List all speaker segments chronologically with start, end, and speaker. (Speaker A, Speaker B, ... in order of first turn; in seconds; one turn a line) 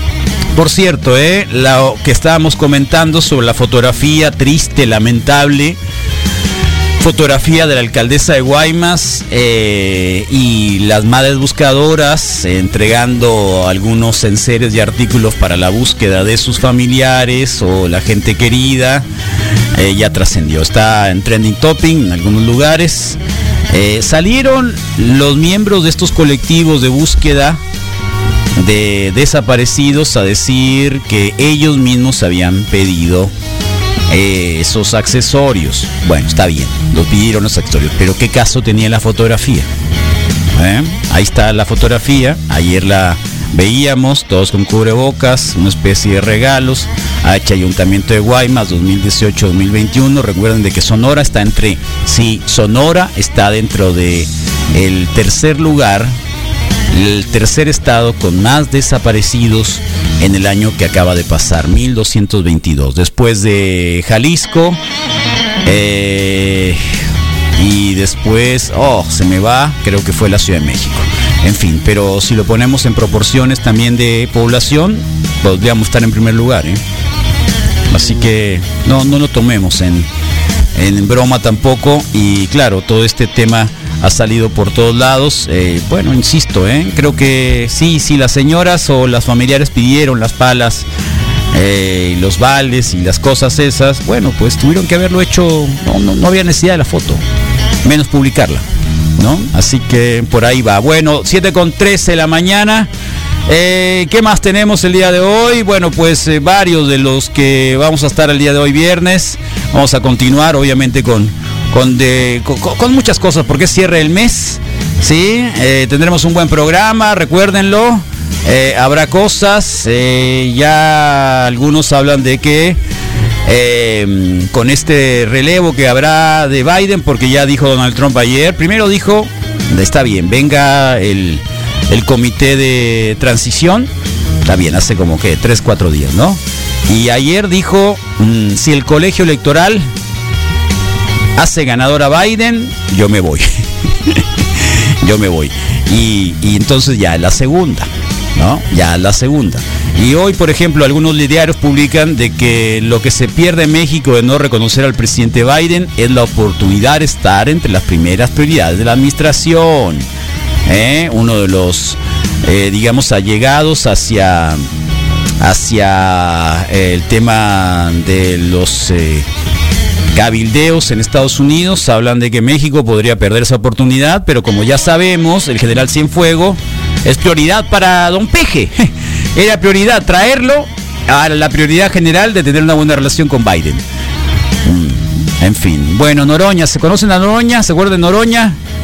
Speaker A: 0.6-5.8
Speaker A: 7.0-19.1
Speaker A: 19.8-23.2
Speaker A: 23.7-27.6
Speaker A: 28.6-33.3
Speaker A: 34.1-39.7
Speaker A: 40.5-56.1
Speaker A: 56.9-64.8
Speaker A: 65.6-66.8
Speaker A: 67.6-76.8
Speaker A: 77.9-80.1
Speaker A: 80.8-90.9
Speaker A: 91.5-97.2
Speaker A: 97.8-98.6
Speaker A: 99.2-102.9
Speaker A: 103.5-122.8
Speaker A: 123.5-133.9
Speaker A: 134.4-139.9
Speaker A: 141.3-143.5
Speaker A: 145.0-160.1
Speaker A: 160.7-164.6
Speaker A: 165.4-169.2
Speaker A: 170.1-183.8
Speaker A: 184.6-188.6